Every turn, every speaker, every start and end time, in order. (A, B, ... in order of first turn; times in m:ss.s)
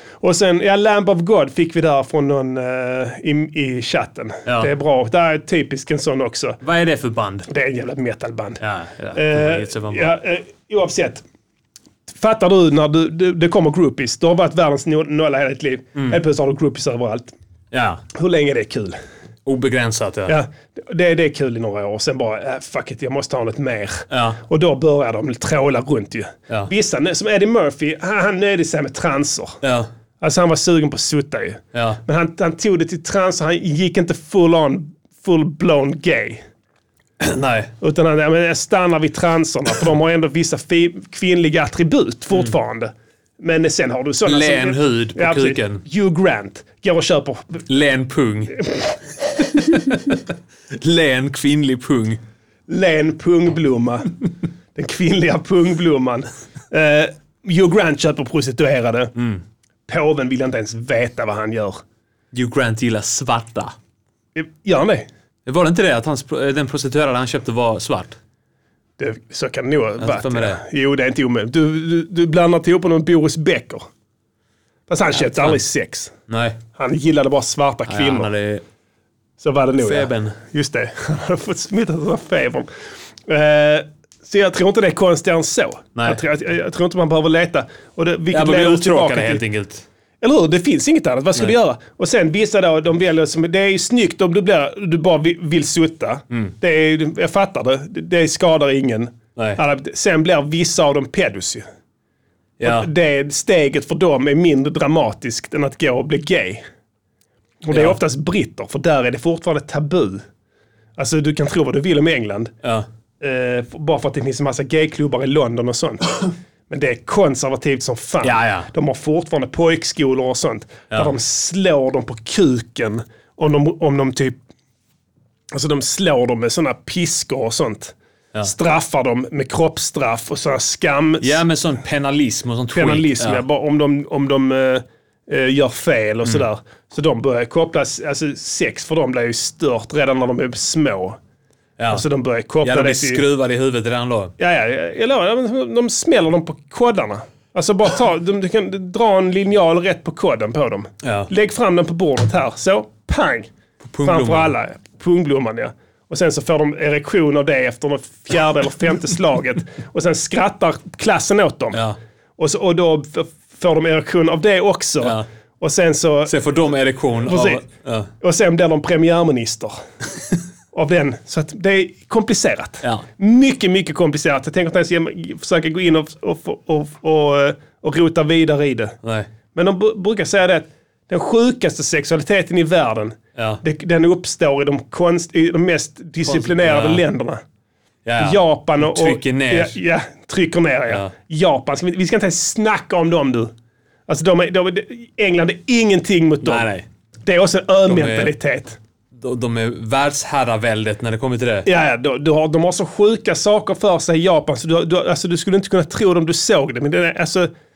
0:00.2-0:06.6 A
0:06.6-0:07.5 B
0:07.5-0:08.6 A
0:08.6-0:10.1 B
0:09.1-0:11.2 A
0:12.1-0:17.3 A
0:17.7-0:18.0 B
0:18.1-0:19.0 A
0:19.4-0:20.4 B
0:20.3-0:29.6 A
0:24.1-0:24.4 B
0:29.6-0:29.9 B
0:30.2-0:36.4 A
0:31.7-0:32.0 B
0:37.2-0:37.7 B
0:37.8-0:47.6 A
0:44.2-0:45.8 B
0:47.7-0:48.6 B
0:49.4-0:52.2 B
0:52.7-0:54.2 A
0:54.7-0:59.1 A
0:59.2-0:59.4 B
0:59.9-1:01.8 A
1:02.3-1:03.7 B
1:04.3-1:05.1 A
1:05.4-1:08.2 B
1:09.0-1:13.9 A
1:10.0-1:10.6 B
1:14.9-1:16.1 A
1:15.2-1:15.6 B
1:16.3-1:16.6 B
1:16.7-1:18.3 A
1:17.9-1:18.6 B
1:19.4-1:22.7 A
1:19.8-1:20.4 B
1:23.3-1:29.4 A
1:26.0-1:26.2 B
1:28.3-1:29.8 B
1:30.2-1:41.6 A
1:42.6-1:42.9 B
1:42.6-1:46.6 A
1:47.6-1:50.2 A
1:47.7-1:48.0 B
1:51.0-1:52.5 A
1:53.2-2:04.4 A
1:58.2-1:58.7 B
2:05.5-2:11.4 A
2:11.2-2:13.4 B
2:12.7-2:21.2 A
2:21.8-2:22.0 B
2:21.9-2:23.2 A
2:22.6-2:24.3 B
2:24.4-2:33.5 A
2:31.0-2:31.3 B
2:33.8-2:34.5 B
2:34.0-2:41.8 A
2:41.7-2:42.0 B
2:42.4-2:46.3 A
2:45.0-2:45.2 B
2:46.3-2:48.1 B
2:47.2-2:47.6 A
2:48.2-2:49.8 A
2:50.7-2:59.0 A
2:59.0-2:59.3 B
2:59.5-3:07.4 A
3:03.4-3:03.6 B
3:06.2-3:07.0 B
3:08.0-3:09.8 B
3:08.2-3:13.5 A
3:14.1-3:16.7 A
3:16.4-3:16.8 B
3:17.2-3:18.8 A
3:17.8-3:18.3 B
3:19.1-3:21.7 B
3:21.6-3:27.5 A